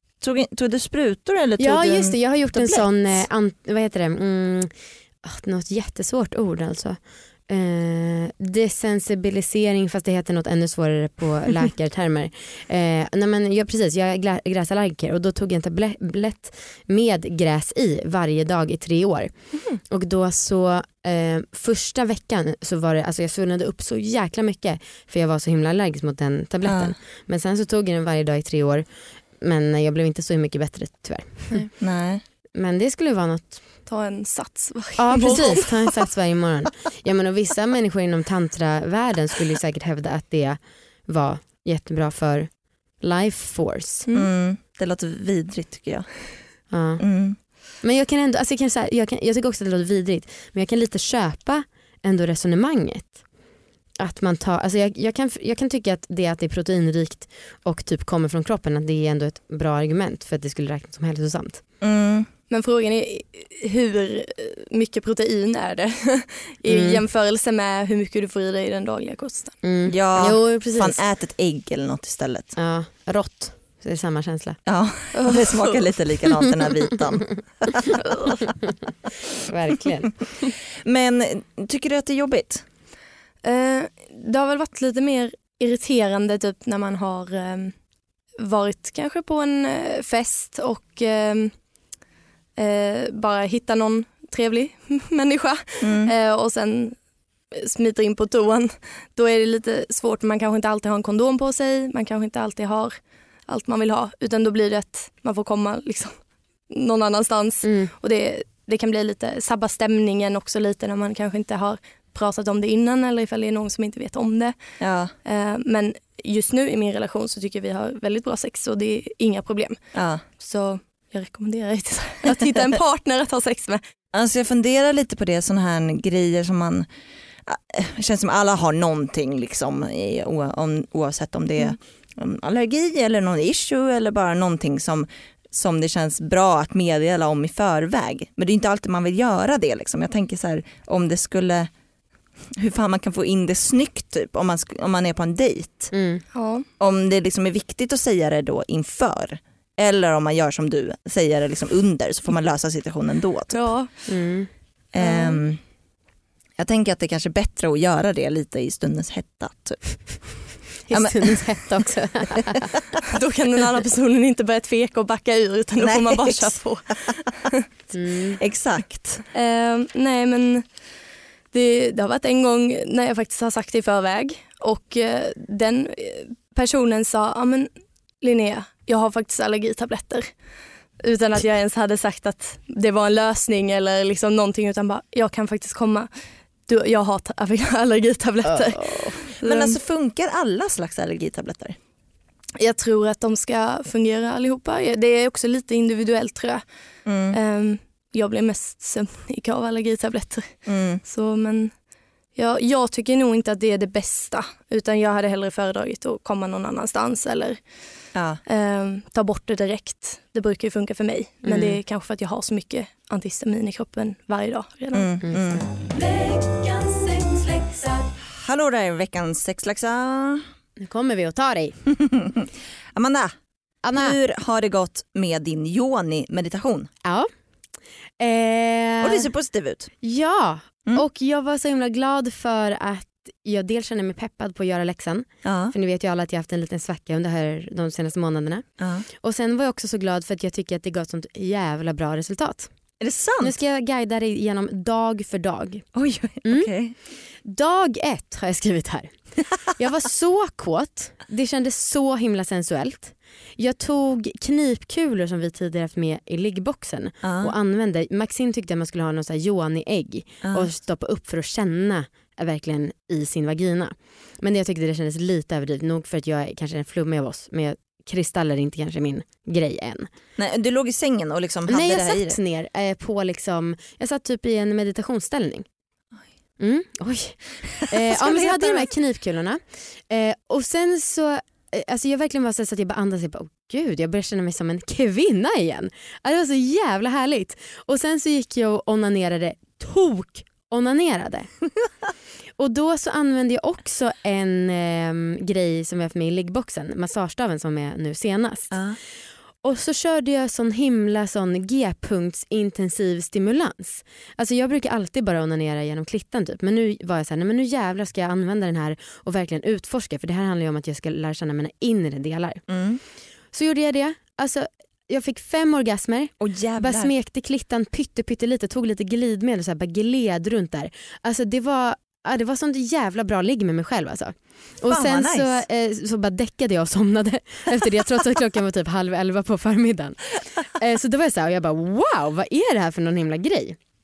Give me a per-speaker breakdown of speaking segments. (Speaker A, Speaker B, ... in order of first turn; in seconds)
Speaker A: 0.2-3.2, 26.6-26.9, 31.8-32.2, 44.1-46.5, 47.0-47.4, 61.8-62.3, 69.9-72.5, 74.7-78.0, 80.8-82.6, 95.8-96.1, 114.8-115.1, 119.9-120.2, 124.1-126.9, 127.5-141.7, 142.6-145.9, 146.8-153.7, 154.9-155.6, 156.6-161.7, 165.8-166.6, 168.4-169.2, 189.4-191.8, 197.0-197.4, 200.6-201.0, 208.1-208.4, 214.9-215.7, 218.2-220.4, 222.0-223.3, 223.9-226.9, 229.0-229.9, 235.4-235.7, 238.8-239.0, 243.0-243.5, 245.9-246.9, 257.2-257.5, 260.4-260.7, 270.4-272.4, 277.8-278.9, 298.7-299.0, 312.7-313.0, 316.4-317.1, 324.9-325.6
Speaker B: 1.6-31.7, 32.5-33.6, 35.0-44.1, 46.7-47.0, 47.8-53.2, 54.0-61.6, 66.7-67.0, 69.6-71.0, 72.5-74.6, 79.5-80.5, 107.6-107.9, 145.9-146.2, 154.1-154.5, 160.8-162.7, 167.9-168.4, 188.4-189.2, 211.4-211.8, 215.2-215.6, 220.8-221.8, 223.8-224.2, 227.0-227.3, 228.2-229.3, 230.0-242.7, 243.4-245.9, 246.4-246.7, 247.4-270.1, 271.7-275.6, 276.6-291.5, 292.6-298.9, 299.6-312.7, 313.5-333.8
Speaker C: 33.9-35.9, 62.5-69.6, 75.1-75.8, 78.0-78.5, 83.4-87.8, 88.4-91.6, 92.5-97.0, 97.5-123.8, 146.3-146.7, 153.5-154.1, 155.0-155.4, 163.1-167.4, 169.3-170.8, 171.5-177.7, 178.2-180.4, 181.0-186.1, 186.7-189.8, 192.6-196.6, 197.3-201.8, 202.3-207.7, 208.4-215.1